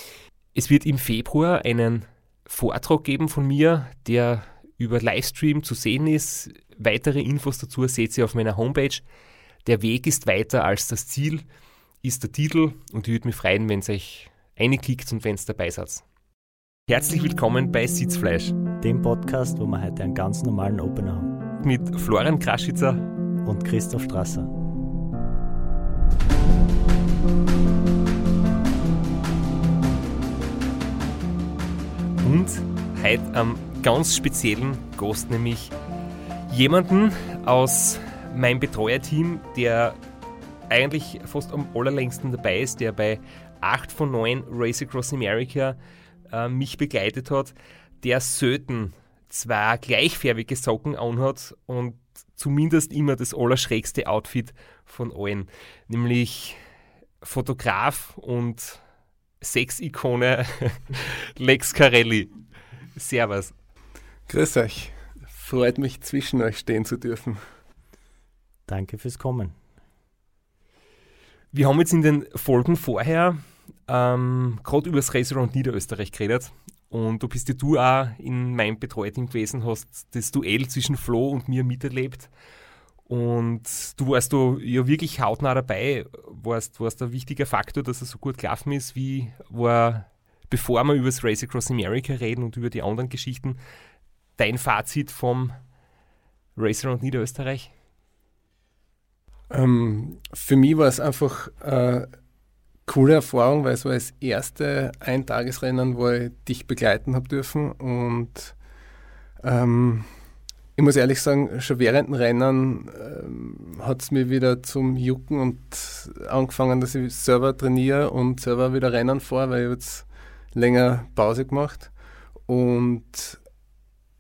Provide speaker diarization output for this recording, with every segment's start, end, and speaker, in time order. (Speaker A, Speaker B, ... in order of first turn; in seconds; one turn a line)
Speaker A: 0.5-9.0
Speaker A: 9.6-11.4
Speaker A: 12.0-16.0
Speaker A: 16.9-18.5
Speaker B: 18.8-21.4
Speaker A: 21.6-23.0
Speaker B: 23.4-24.5
Speaker A: 32.2-35.7
Speaker A: 36.5-40.0
Speaker A: 40.7-45.8
Speaker A: 46.3-56.6
Speaker A: 57.2-58.8
Speaker A: 59.4-62.3
Speaker A: 63.0-63.5
Speaker C: 64.3-67.4
Speaker B: 68.7-69.5
Speaker A: 71.5-82.3
Speaker A: 83.1-93.6
Speaker A: 94.4-95.5
Speaker A: 96.5-97.7
Speaker C: 99.5-102.1
Speaker C: 102.8-108.5
Speaker C: 109.4-110.1
Speaker C: 110.8-121.9
Speaker C: 122.5-123.4